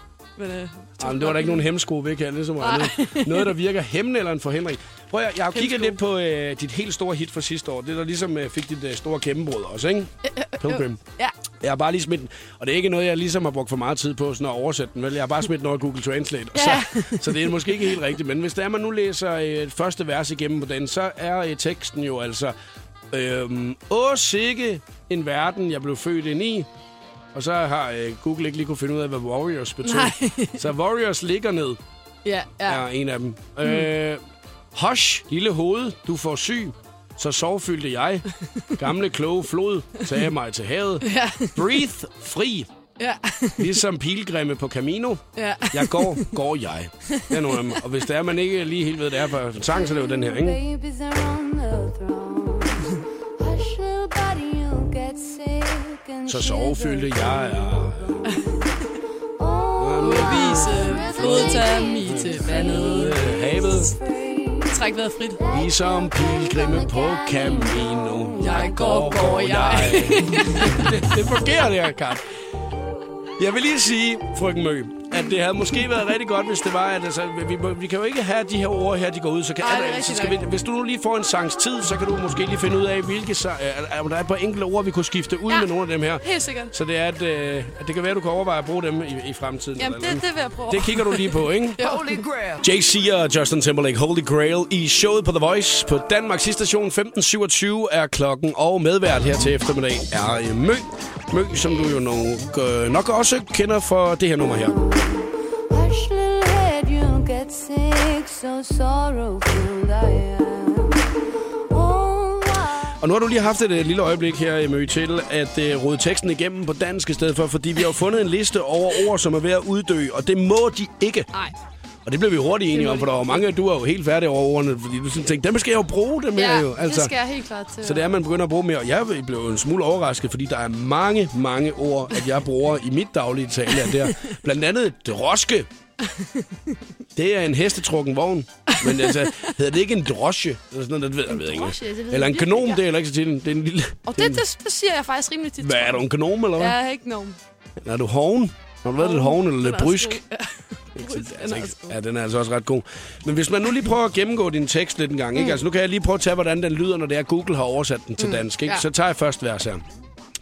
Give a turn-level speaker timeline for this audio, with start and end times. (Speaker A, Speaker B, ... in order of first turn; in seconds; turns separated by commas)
Speaker A: 0.4-1.7, Speaker B: 1.0-11.0, Speaker A: 2.6-3.5, Speaker A: 5.5-6.0, Speaker A: 10.3-11.3, Speaker B: 11.6-22.6, Speaker A: 16.5-17.8, Speaker B: 23.1-26.7, Speaker B: 27.3-31.8, Speaker A: 29.8-30.6, Speaker A: 32.2-32.9, Speaker B: 32.6-34.2, Speaker B: 34.7-42.7, Speaker A: 41.0-41.9, Speaker A: 43.0-43.8, Speaker B: 43.6-50.6, Speaker A: 45.4-46.3, Speaker A: 47.1-47.7, Speaker A: 50.5-53.0, Speaker C: 50.7-52.8, Speaker C: 53.4-57.2, Speaker B: 56.3-58.5, Speaker A: 56.3-56.8, Speaker A: 58.2-58.9, Speaker C: 59.4-62.5, Speaker B: 59.8-64.0, Speaker A: 60.0-65.5, Speaker C: 64.2-64.7, Speaker C: 65.4-67.8, Speaker B: 65.5-72.2, Speaker A: 68.4-71.2, Speaker B: 73.4-104.9, Speaker A: 79.6-80.4, Speaker A: 85.5-86.7, Speaker A: 89.8-92.4, Speaker A: 105.7-110.8, Speaker C: 105.7-110.9, Speaker A: 111.7-112.9, Speaker C: 111.8-112.6, Speaker B: 112.9-121.3, Speaker B: 122.1-127.1, Speaker A: 122.7-123.5, Speaker A: 126.3-128.1, Speaker B: 127.8-135.7, Speaker A: 133.9-134.2, Speaker A: 136.0-136.8, Speaker B: 137.2-144.4, Speaker A: 138.7-139.5, Speaker A: 141.3-142.8, Speaker A: 144.1-146.1, Speaker B: 145.6-146.8, Speaker A: 146.6-147.4, Speaker B: 147.8-150.2, Speaker A: 149.0-152.0, Speaker B: 150.9-159.8, Speaker A: 158.2-158.8